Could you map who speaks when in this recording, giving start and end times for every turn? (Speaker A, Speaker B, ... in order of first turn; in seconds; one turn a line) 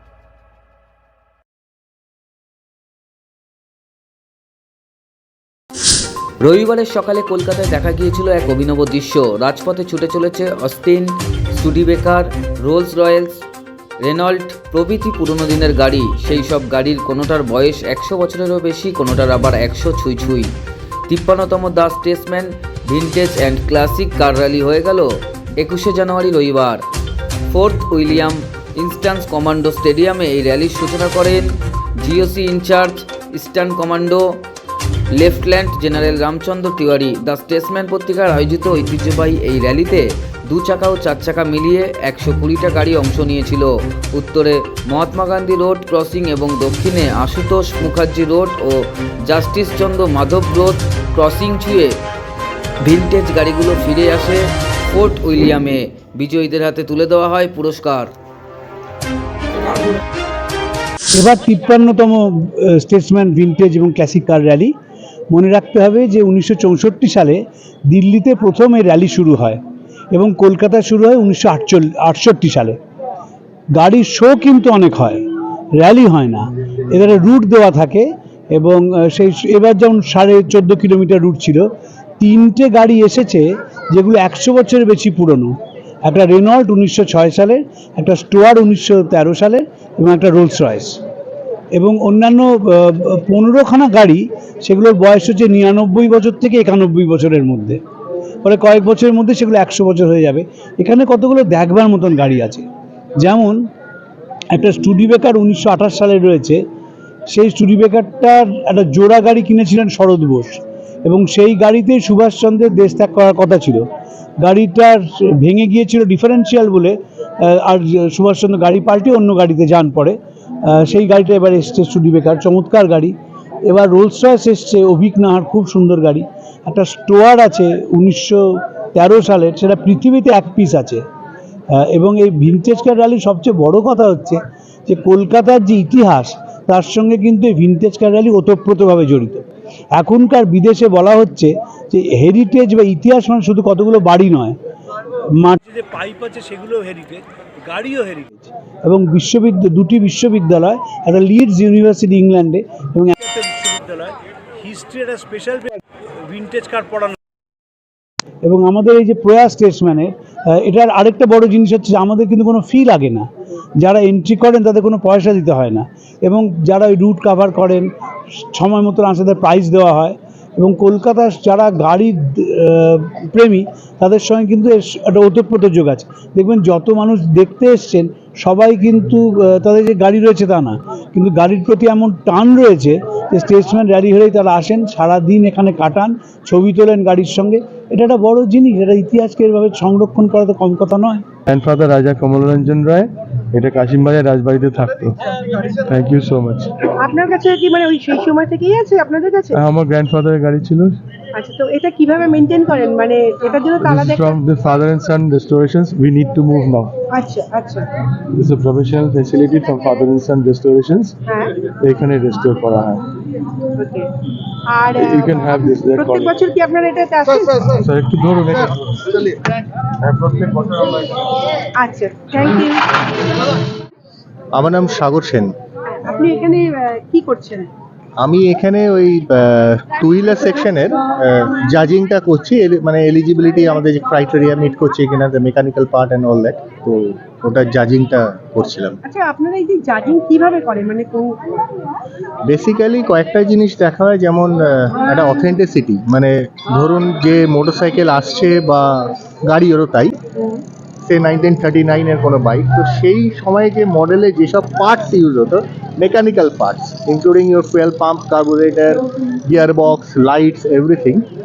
Speaker A: 6.4-13.4
Speaker A: 14.0-20.5
Speaker A: 21.1-26.8
Speaker A: 27.5-31.5
Speaker A: 32.0-34.4
Speaker A: 35.1-51.9
Speaker A: 52.8-58.1
Speaker B: 61.1-64.7
Speaker B: 65.3-69.6
Speaker B: 70.1-72.8
Speaker B: 73.7-75.2
Speaker B: 75.8-81.7
Speaker B: 82.2-91.0
Speaker B: 91.7-97.8
Speaker B: 98.4-102.7
Speaker B: 103.2-103.6
Speaker B: 104.5-106.6
Speaker B: 107.3-113.8
Speaker B: 114.4-123.1
Speaker B: 123.6-128.4
Speaker B: 128.9-131.0
Speaker B: 131.8-144.6
Speaker B: 145.4-157.2
Speaker B: 158.4-191.2
Speaker C: 191.5-195.2
Speaker C: 195.9-196.7
Speaker D: 197.0-199.6
Speaker C: 199.5-201.0
Speaker D: 201.3-204.4
Speaker C: 203.8-206.9
Speaker D: 207.1-207.9
Speaker C: 208.3-211.2
Speaker C: 211.8-213.0
Speaker D: 213.8-214.1
Speaker D: 214.7-217.7
Speaker C: 214.9-216.4
Speaker C: 217.7-218.7
Speaker D: 221.8-222.8
Speaker E: 224.5-225.5
Speaker D: 225.9-227.7
Speaker E: 228.2-239.0
Speaker D: 239.0-241.3
Speaker E: 242.5-250.2
Speaker E: 251.0-261.2